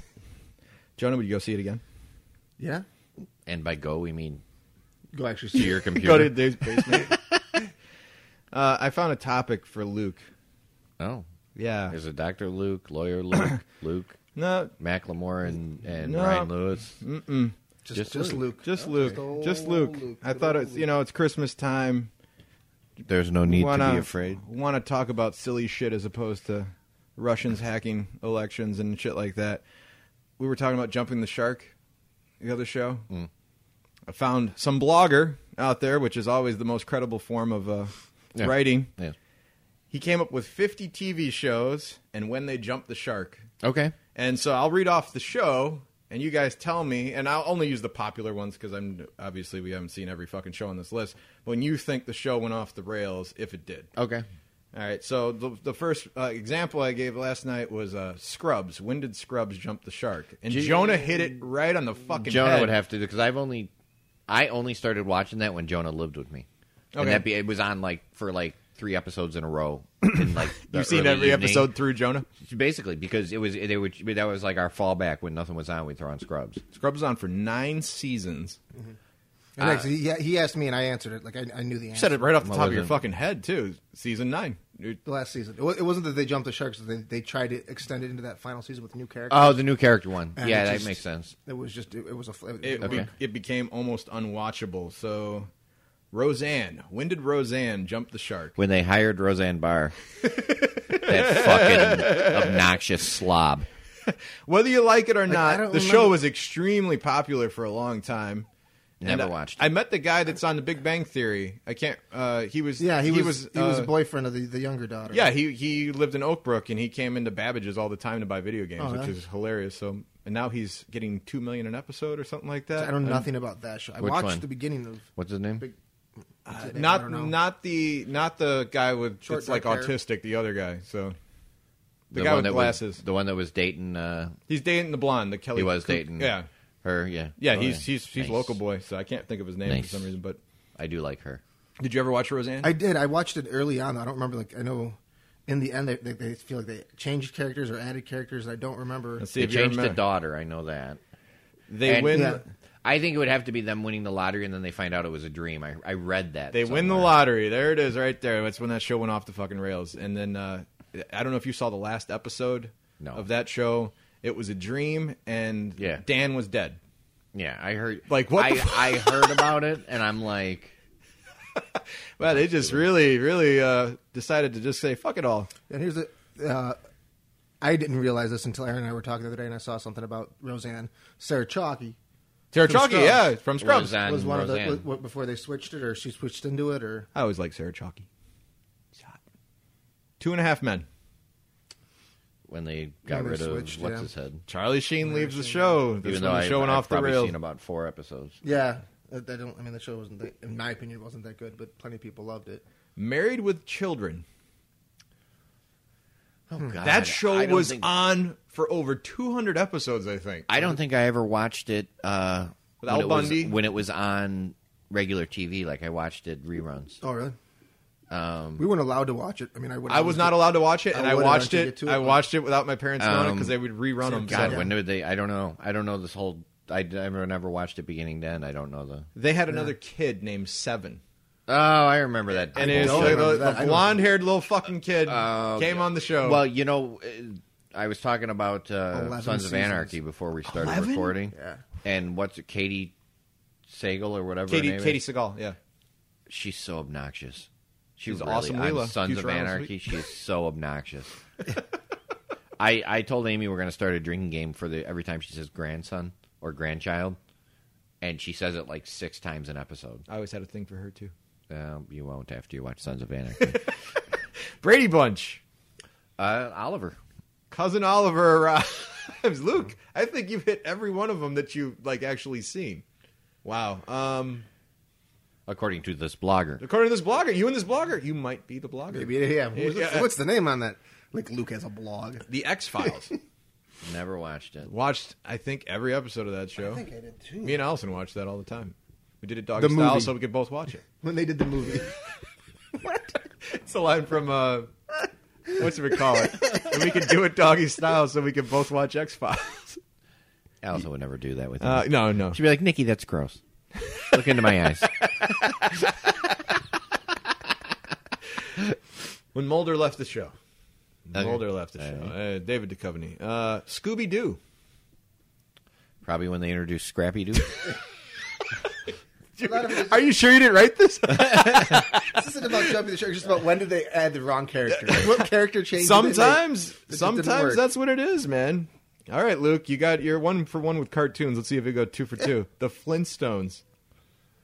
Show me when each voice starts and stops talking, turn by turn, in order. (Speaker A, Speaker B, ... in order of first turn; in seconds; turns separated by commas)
Speaker A: 1.0-1.8, Speaker B: 2.6-2.9, Speaker C: 3.5-4.4, Speaker B: 5.1-6.2, Speaker C: 5.5-7.2, Speaker A: 6.0-7.1, Speaker A: 8.5-10.2, Speaker C: 11.0-11.2, Speaker A: 11.6-11.9, Speaker C: 11.9-14.2, Speaker A: 14.4-14.7, Speaker C: 14.8-17.0, Speaker A: 16.0-17.5, Speaker B: 17.9-20.9, Speaker C: 17.9-18.4, Speaker A: 18.6-22.1, Speaker C: 23.1-24.4, Speaker A: 23.4-29.6, Speaker A: 30.4-31.7, Speaker A: 32.4-33.0, Speaker A: 34.1-38.9, Speaker C: 38.4-39.1, Speaker A: 39.9-43.5, Speaker C: 43.6-43.9, Speaker A: 44.1-53.9, Speaker C: 54.0-54.2, Speaker A: 54.7-62.8, Speaker C: 60.5-61.4, Speaker C: 62.2-63.7, Speaker C: 64.3-66.5, Speaker A: 66.9-67.2, Speaker C: 67.0-71.7, Speaker A: 70.0-72.2, Speaker C: 72.4-76.6, Speaker A: 76.7-78.6, Speaker B: 79.6-82.3, Speaker C: 79.6-79.8, Speaker A: 81.9-85.0, Speaker C: 82.4-82.9, Speaker B: 85.0-89.6, Speaker C: 89.3-91.3, Speaker B: 90.3-93.1, Speaker A: 92.6-95.5, Speaker C: 92.8-93.1, Speaker A: 96.1-98.6, Speaker C: 98.6-100.0, Speaker A: 100.4-102.6, Speaker C: 100.9-103.7, Speaker A: 104.1-108.5, Speaker B: 105.3-106.2, Speaker C: 109.0-109.6, Speaker A: 109.0-113.9, Speaker B: 112.8-115.3, Speaker A: 115.1-123.2, Speaker B: 118.8-119.1, Speaker B: 122.8-125.8, Speaker C: 124.0-124.4, Speaker C: 125.2-125.6, Speaker A: 126.4-131.2, Speaker B: 126.6-127.3, Speaker B: 129.2-129.9, Speaker C: 132.1-134.4, Speaker A: 132.1-133.0, Speaker A: 134.5-136.5, Speaker C: 135.5-138.6, Speaker A: 137.4-140.4, Speaker C: 139.7-140.1, Speaker C: 140.8-141.4, Speaker A: 141.8-142.7, Speaker B: 142.6-149.2, Speaker A: 149.2-150.0, Speaker C: 149.3-151.0, Speaker A: 151.7-152.4, Speaker C: 151.8-157.2, Speaker B: 152.1-152.4, Speaker A: 156.5-166.8, Speaker C: 163.0-163.2, Speaker C: 165.8-166.0, Speaker C: 167.3-170.7, Speaker A: 168.1-169.4, Speaker A: 171.6-175.5, Speaker C: 172.5-172.8, Speaker B: 175.7-176.8, Speaker B: 177.6-182.0, Speaker A: 182.5-184.0, Speaker B: 182.6-183.3, Speaker C: 183.6-184.8, Speaker B: 184.0-187.1, Speaker A: 187.1-188.1, Speaker A: 190.2-190.9, Speaker C: 192.5-194.4, Speaker B: 193.1-194.1, Speaker A: 194.5-197.3, Speaker B: 195.0-195.8, Speaker C: 196.0-198.4, Speaker B: 198.4-202.6, Speaker A: 203.0-204.2, Speaker C: 206.5-207.9, Speaker A: 206.8-210.5, Speaker C: 210.5-217.0, Speaker A: 212.8-213.6, Speaker B: 217.0-217.4, Speaker C: 218.1-218.7, Speaker B: 218.6-222.2, Speaker A: 219.9-224.7, Speaker C: 223.0-223.6, Speaker B: 224.0-224.8, Speaker C: 224.2-229.1, Speaker A: 229.2-231.0, Speaker C: 231.5-233.5, Speaker A: 232.5-236.4, Speaker B: 232.6-234.0, Speaker C: 235.1-242.9, Speaker B: 238.9-240.0, Speaker A: 240.5-241.2, Speaker B: 241.3-241.6, Speaker C: 243.7-245.0, Speaker A: 244.5-245.6, Speaker C: 246.3-251.1, Speaker A: 248.1-250.0, Speaker C: 252.6-257.2, Speaker C: 258.0-260.0, Speaker A: 260.1-261.1, Speaker C: 261.5-263.7, Speaker A: 263.4-264.0, Speaker A: 264.6-265.4, Speaker C: 266.2-267.0, Speaker A: 267.5-272.8, Speaker A: 273.4-274.5, Speaker C: 275.5-276.6, Speaker A: 276.6-280.1, Speaker B: 278.9-282.2, Speaker A: 282.3-283.1, Speaker C: 283.8-284.7, Speaker A: 284.6-286.8, Speaker B: 286.6-287.6, Speaker A: 287.4-290.8, Speaker B: 289.6-290.1, Speaker B: 290.9-291.9, Speaker B: 292.8-293.2, Speaker A: 293.4-294.7, Speaker A: 295.5-299.8, Speaker C: 300.6-303.4, Speaker A: 301.6-302.4, Speaker A: 303.8-305.7, Speaker C: 304.1-305.0, Speaker A: 309.3-310.4, Speaker A: 311.1-314.4, Speaker C: 311.1-312.1, Speaker C: 316.0-317.7, Speaker A: 319.4-322.6, Speaker B: 319.4-320.1, Speaker B: 322.1-327.7, Speaker A: 324.7-333.6